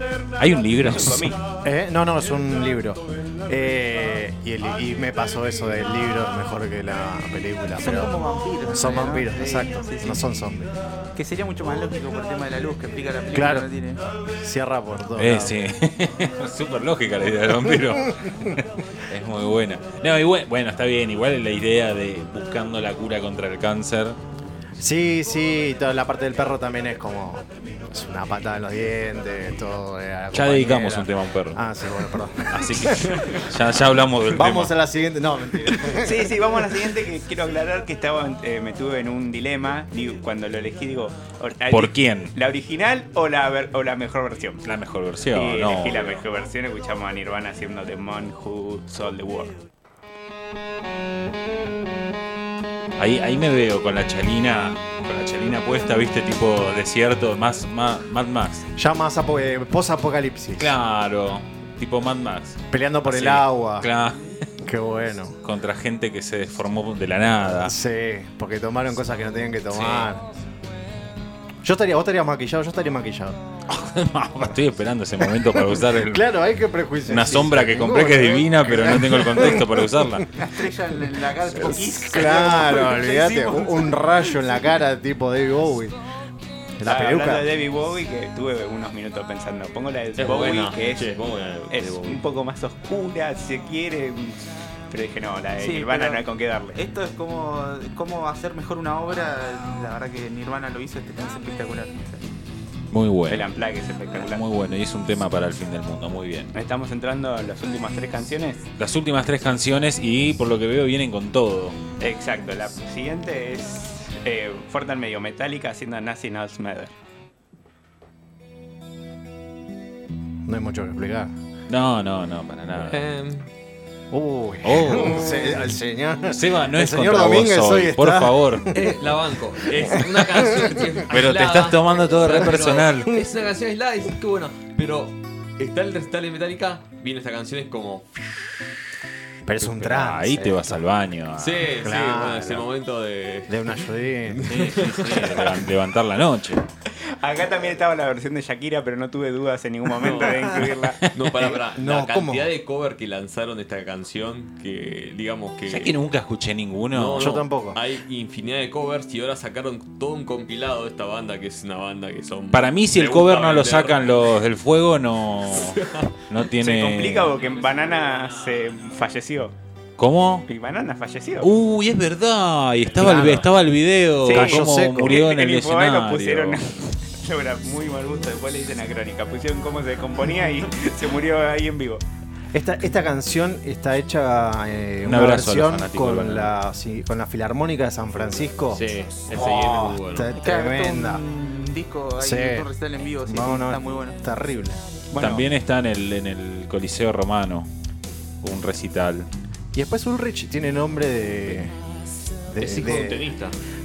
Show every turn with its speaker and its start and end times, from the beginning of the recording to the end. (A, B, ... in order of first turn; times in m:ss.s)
0:00.4-0:01.3 A
0:00.8-0:01.4 B
0:01.6-0:10.7 C
0:07.8-0:10.1 D
0:11.1-0:14.0 D
0:13.3-0:13.7 C
0:14.4-0:15.6 C
0:15.2-0:24.2 A
0:24.8-0:33.2 C
0:30.3-0:31.6 A
0:32.5-0:34.7 A
0:34.3-0:36.3 C
0:35.7-0:44.7 B
0:41.7-0:42.3 A
0:44.6-0:46.2 A
0:45.3-0:49.6 B
0:53.0-0:58.6 A
0:58.8-1:00.8 C
1:00.6-1:04.2 A
1:02.7-1:03.9 C
1:04.6-1:05.4 C
1:05.4-1:07.7 A
1:07.5-1:10.3 C
1:09.7-1:10.1 A
1:11.6-1:13.4 C
1:13.7-1:16.2 A
1:15.2-1:19.9 C
1:17.0-1:20.3 A
1:20.4-1:23.8 D
1:21.6-1:25.9 C
1:26.8-1:27.5 C
1:26.8-1:36.8 B
1:30.2-1:32.2 E
1:35.6-1:36.2 D
1:36.8-1:42.2 D
1:42.9-1:43.5 A
1:43.3-1:44.4 B
1:44.1-1:46.5 A
1:46.5-1:48.7 B
1:48.8-1:51.8 A
1:52.0-1:56.9 B
2:00.4-2:01.3 C
2:01.7-2:03.0 A
2:02.8-2:03.5 E
2:04.1-2:08.8 C
2:04.6-2:05.6 A
2:06.2-2:08.7 A
2:08.7-2:18.2 E
2:09.9-2:10.7 C
2:11.1-2:13.1 A
2:19.4-2:20.8 C
2:19.6-2:21.7 A
2:21.4-2:23.6 E
2:21.8-2:22.7 C
2:23.5-2:24.5 C
2:24.3-2:25.6 E
2:24.4-2:26.6 A
2:27.2-2:31.1 B
2:30.0-2:35.9 E
2:31.4-2:32.5 C
2:35.7-2:37.4 A
2:36.9-2:44.4 E
2:37.2-2:37.8 C
2:42.5-2:47.3 A
2:45.5-2:46.2 E
2:46.6-2:49.5 B
2:50.0-2:50.4 A
2:50.5-2:51.5 B
2:51.4-2:56.6 A
2:53.0-2:53.5 C
2:54.2-3:02.0 B
2:54.3-2:55.2 C
3:02.5-3:11.2 C
3:05.0-3:06.5 A
3:08.7-3:10.4 E
3:10.4-3:14.2 D
3:12.2-3:12.7 C
3:13.2-3:14.8 C
3:15.1-3:15.5 B
3:15.2-3:17.7 A
3:18.4-3:19.3 A
3:19.7-3:21.7 C
3:22.5-3:23.2 C
3:22.6-3:23.6 E